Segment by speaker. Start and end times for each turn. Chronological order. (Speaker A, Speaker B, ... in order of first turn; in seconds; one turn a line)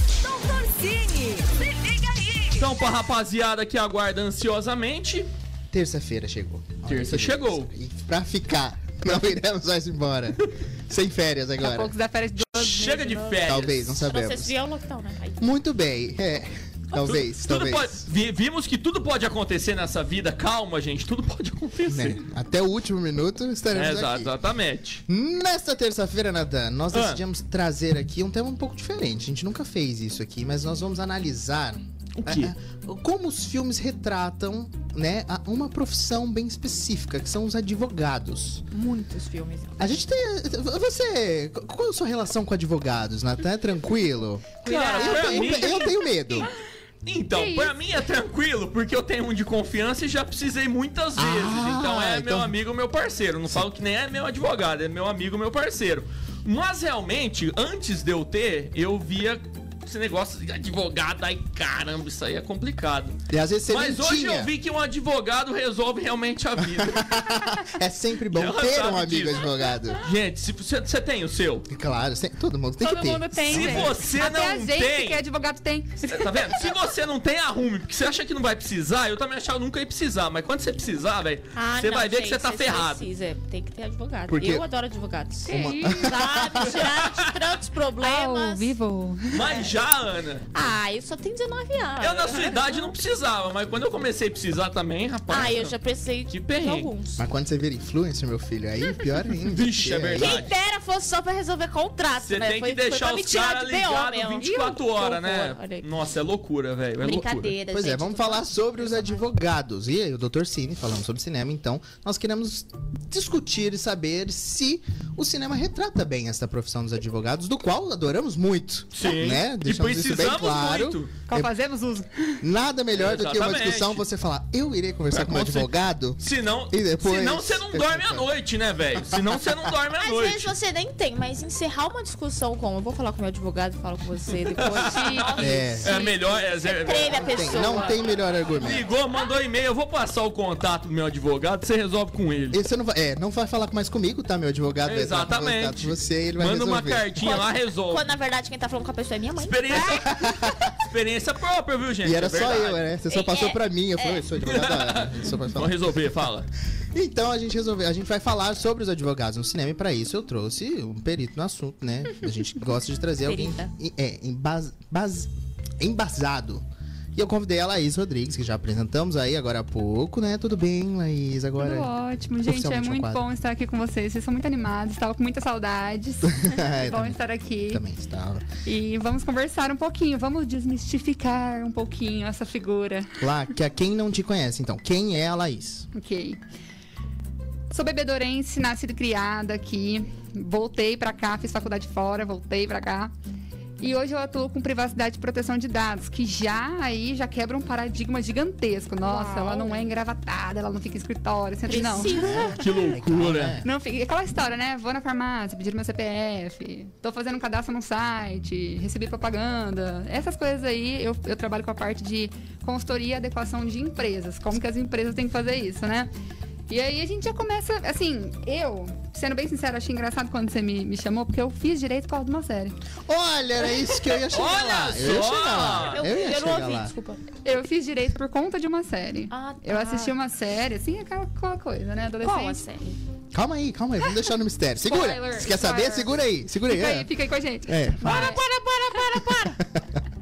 Speaker A: 0.2-2.7
Speaker B: 2.5-5.3
Speaker C: 5.7-11.9
Speaker B: 6.8-7.7
Speaker D: 11.6-13.4
Speaker B: 12.4-14.1
Speaker C: 13.4-14.5
Speaker E: 14.0-15.4
Speaker C: 15.4-18.1
Speaker B: 17.0-22.2
Speaker C: 21.9-24.3
Speaker B: 23.7-25.0
Speaker C: 25.1-38.6
Speaker B: 26.9-27.2
Speaker B: 32.2-32.5
Speaker E: 38.7-39.9
Speaker C: 39.8-46.5
Speaker B: 44.6-46.0
Speaker D: 44.6-45.9
Speaker E: 44.9-45.4
Speaker B: 47.0-63.2
Speaker D: 47.3-47.7
Speaker C: 51.2-52.5
Speaker C: 63.3-64.5
Speaker B: 63.7-67.2
Speaker C: 66.6-70.0
Speaker B: 68.3-71.7
Speaker C: 71.7-73.9
Speaker D: 72.8-76.6
Speaker B: 73.4-75.2
Speaker B: 76.0-83.0
Speaker E: 81.5-88.7
Speaker C: 84.3-84.6
Speaker D: 85.5-86.2
Speaker C: 85.5-86.8
Speaker B: 86.6-87.4
Speaker D: 88.0-89.5
Speaker B: 89.3-90.5
Speaker E: 89.4-89.7
Speaker E: 90.5-92.9
Speaker B: 92.0-95.8
Speaker E: 95.3-97.2
Speaker B: 96.3-96.9
Speaker C: 97.2-100.4
Speaker B: 99.5-100.5
Speaker E: 100.2-105.8
Speaker B: 102.2-107.5
Speaker E: 107.0-109.2
Speaker C: 107.7-121.5
Speaker B: 118.9-121.1
Speaker D: 121.3-122.4
Speaker C: 122.4-128.3
Speaker B: 123.0-124.0
Speaker B: 125.1-130.5
Speaker E: 129.9-138.1
Speaker B: 134.4-137.9
Speaker D: 134.7-135.4
Speaker C: 135.4-136.0
Speaker C: 137.2-138.9
Speaker B: 138.5-142.6
Speaker C: 142.5-147.2
Speaker B: 144.8-148.1
Speaker E: 147.2-150.1
Speaker B: 149.4-150.2
Speaker C: 149.9-150.7
Speaker B: 150.8-152.8
Speaker C: 152.0-155.9
Speaker E: 153.1-154.2
Speaker B: 154.4-156.5
Speaker C: 156.9-171.9
Speaker E: 163.2-163.7
Speaker D: 171.6-177.8
Speaker C: 172.4-173.2
Speaker C: 176.2-178.5
Speaker D: 178.6-183.2
Speaker C: 183.2-185.9
Speaker D: 185.9-186.4
Speaker D: 187.7-193.1
Speaker D: 193.8-202.5
Speaker E: 199.0-199.9
Speaker E: 201.7-202.6
Speaker C: 202.1-203.7
Speaker B: 202.3-203.6
Speaker D: 203.6-216.1
Speaker D: 216.7-222.8
Speaker C: 223.1-226.9
Speaker B: 224.3-226.0
Speaker E: 225.5-227.2
Speaker D: 227.4-232.6
Speaker E: 229.3-230.1
Speaker E: 232.2-233.0
Speaker C: 233.3-237.1
Speaker D: 234.8-238.4
Speaker C: 237.7-238.4
Speaker E: 238.1-239.6
Speaker C: 239.2-239.8